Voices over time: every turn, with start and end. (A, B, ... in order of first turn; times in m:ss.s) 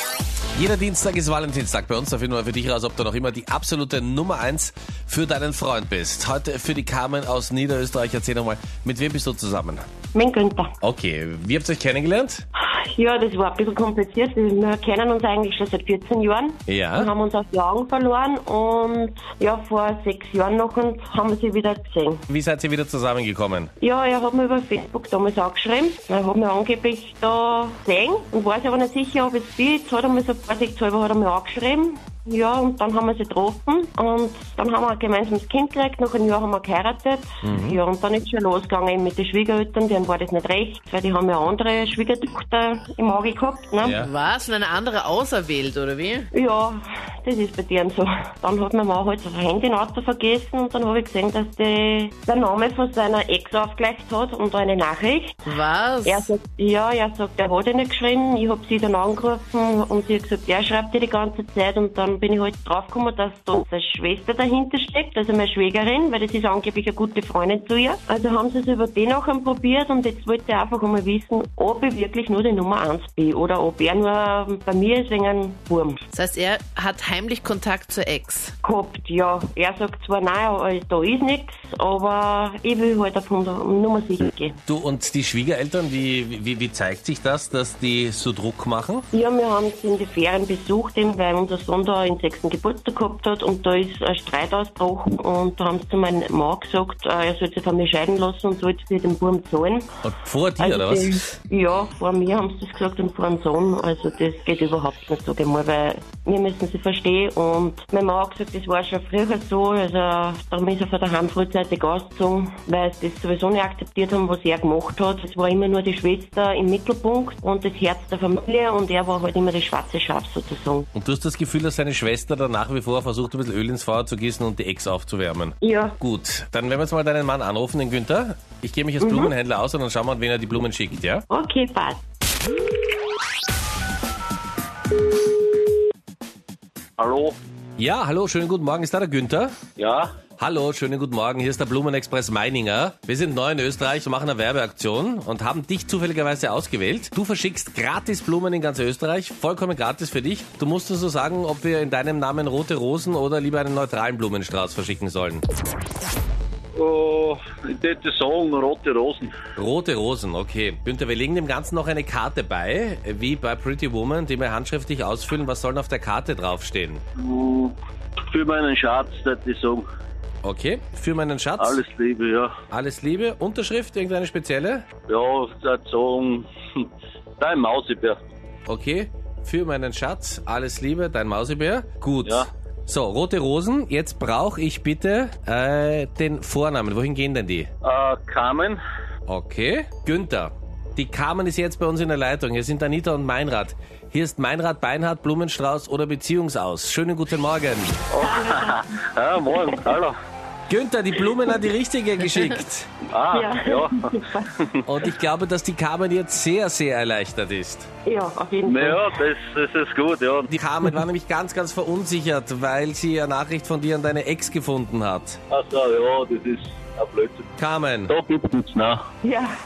0:00.6-0:09.8 A
0:10.1-0:10.7 B
0:10.8-0:12.4 A
0:12.6-0:22.2 B
0:16.7-0:17.1 A
0:22.3-0:23.7 A
0:23.8-0:44.0 B
0:37.4-0:37.8 A
0:43.8-0:44.1 A
0:44.0-0:46.3 C
0:46.3-0:55.5 B
0:55.5-0:56.3 C
0:56.0-1:16.0 B
1:16.1-1:18.5 C
1:18.6-1:24.6 B
1:24.7-1:29.1 A
1:29.1-1:39.9 B
1:40.0-1:41.2 A
1:40.6-2:00.9 B
2:01.0-2:11.2 A
2:05.6-2:06.0 B
2:09.0-2:09.3 B
2:11.3-2:12.0 B
2:17.0-2:17.4 D
2:17.8-2:19.5 A
2:19.8-2:20.1 D
2:20.4-2:35.4 A
2:36.8-2:39.3 D
2:39.6-2:47.0 A
2:47.2-2:47.8 D
2:48.3-2:49.9 D
2:50.4-2:51.8 A
2:51.6-2:52.5 D
2:52.7-2:54.8 A
2:55.1-2:56.9 D
2:57.4-2:58.2 D
2:58.7-3:07.7 A
3:02.2-3:02.5 D
3:07.8-3:08.8 D
3:09.3-3:18.0 A
3:18.1-3:20.2 D
3:18.2-3:19.8 B
3:20.7-3:22.9 A
3:23.1-3:24.8 D
3:23.3-3:24.5 B
3:24.8-3:27.9 A
3:28.0-3:29.2 B
3:28.6-3:30.5 D
3:30.5-3:35.4 A
3:35.5-3:37.5 D
3:37.6-3:38.1 A
3:38.1-3:39.0 D
3:39.2-3:39.6 B